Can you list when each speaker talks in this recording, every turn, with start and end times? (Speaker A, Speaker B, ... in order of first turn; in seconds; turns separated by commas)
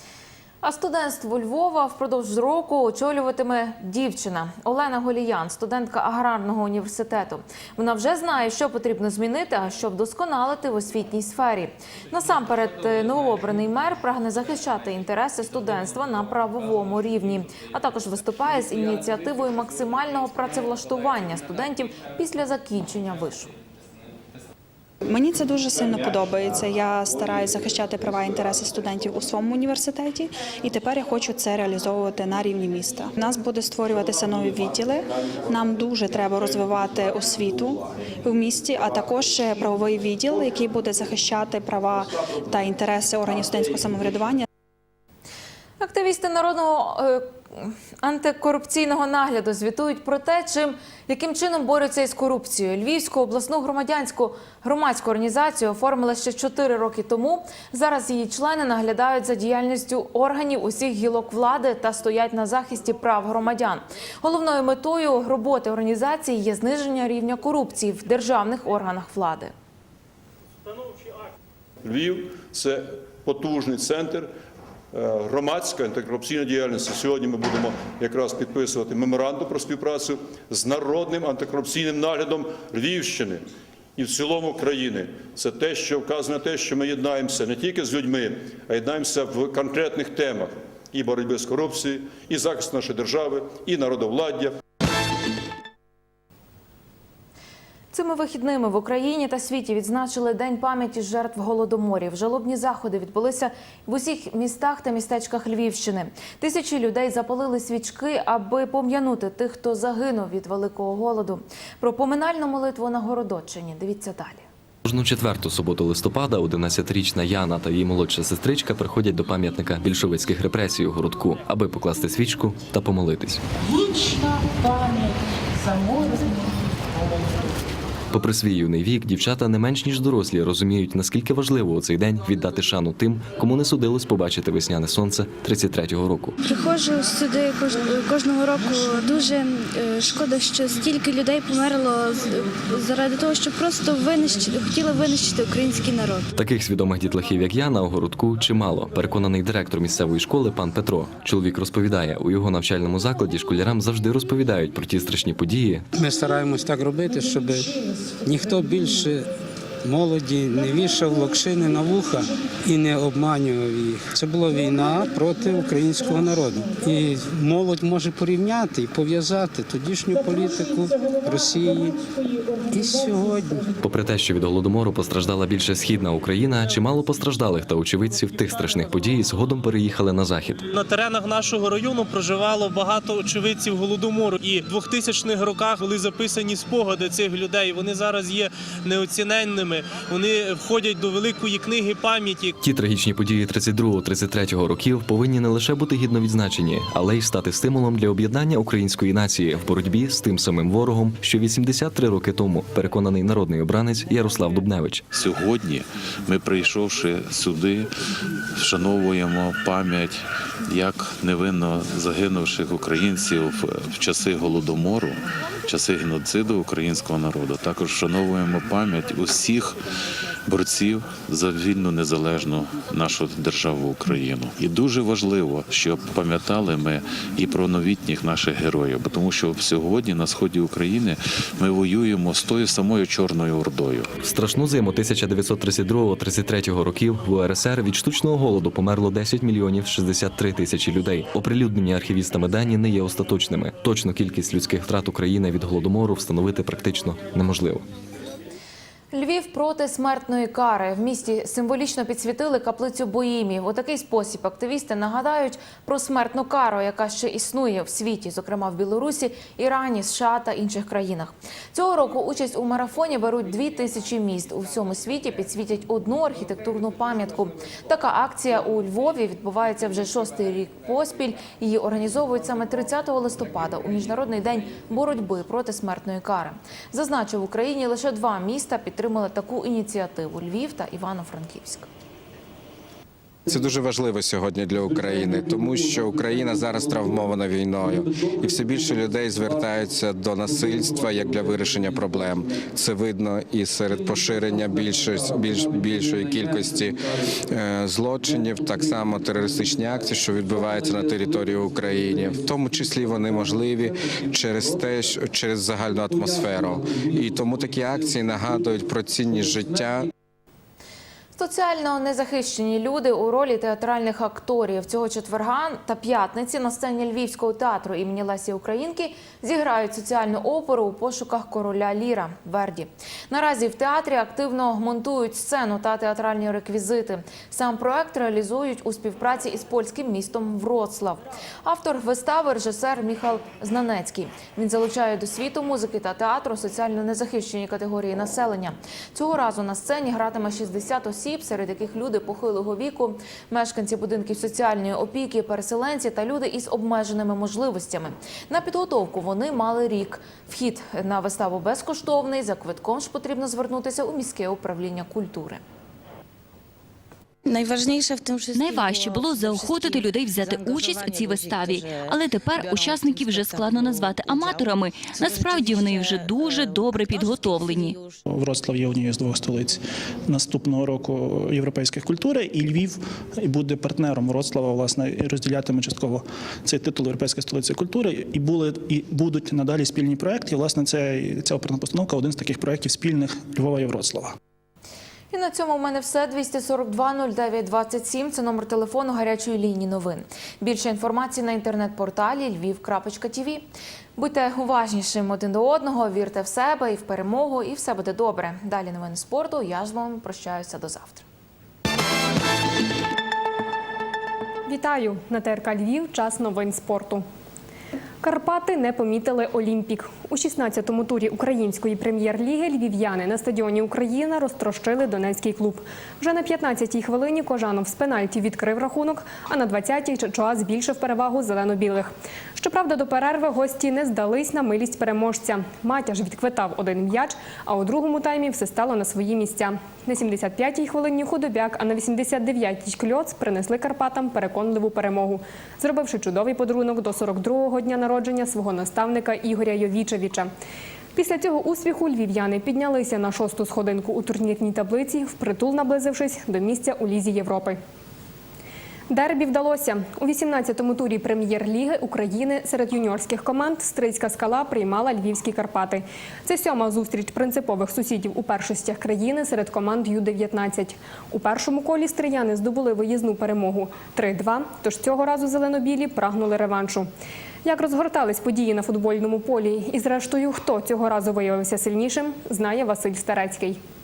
Speaker A: 0.6-23.5, Speaker B: 25.0-44.5, Speaker A: 45.8-69.5, Speaker C: 71.8-74.3, Speaker C: 74.9-83.4, Speaker C: 84.0-94.5, Speaker A: 97.9-114.5, Speaker D: 114.8-123.4, Speaker D: 128.1-136.4, Speaker E: 136.4-146.3, Speaker D: 146.4-155.9, Speaker F: 155.9-159.3, Speaker F: 159.8-172.0, Speaker F: 172.7-173.7, Speaker D: 173.8-180.6, Speaker G: 180.7-192.6, Speaker D: 192.6-205.0, Speaker H: 205.1-207.9, Speaker H: 208.5-219.8, Speaker H: 220.5-234.1, Speaker D: 234.2-247.8, Speaker A: 249.1-281.9, Speaker I: 283.5-297.0, Speaker I: 297.5-310.1, Speaker A: 311.4-355.6, Speaker J: 358.5-367.9, Speaker K: 368.3-384.3, Speaker A: 385.3-393.6, Speaker A: 394.2-401.2, Speaker L: 404.7-407.2, Speaker L: 408.2-440.5, Speaker L: 441.1-447.8, Speaker L: 449.1-467.1, Speaker L: 467.6-473.8